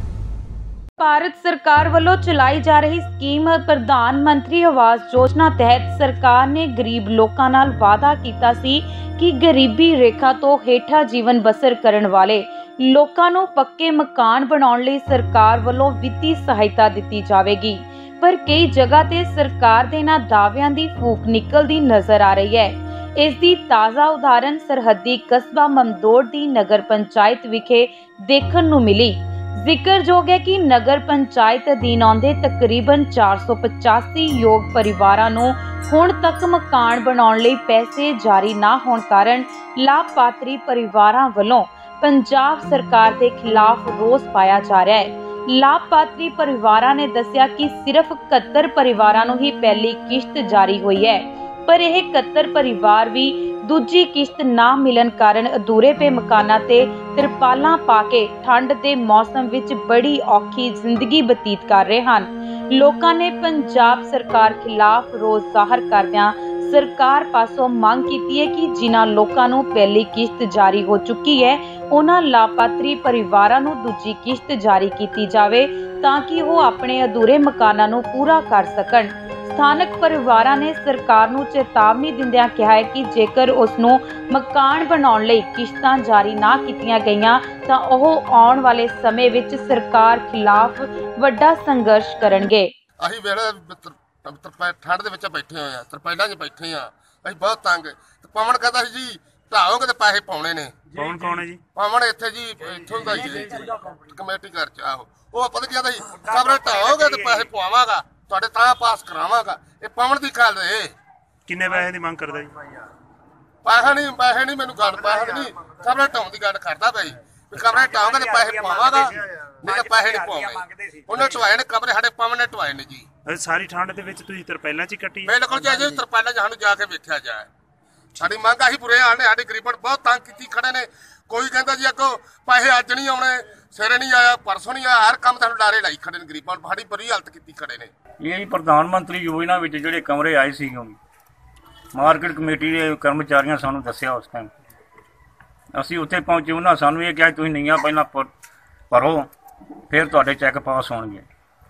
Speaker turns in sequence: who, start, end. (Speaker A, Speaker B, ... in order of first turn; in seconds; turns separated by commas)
Speaker A: 1.0-92.7, Speaker B: 93.0-100.8, Speaker C: 100.9-101.6, Speaker B: 101.7-110.9, Speaker C: 103.2-103.7, Speaker C: 106.3-107.5, Speaker C: 111.5-112.5, Speaker B: 113.6-123.1, Speaker C: 117.6-121.4, Speaker C: 123.2-125.9, Speaker B: 125.2-127.5, Speaker B: 128.2-137.9, Speaker D: 138.2-141.0, Speaker D: 141.9-144.5, Speaker D: 145.7-148.3, Speaker D: 148.9-149.3, Speaker D: 149.9-151.2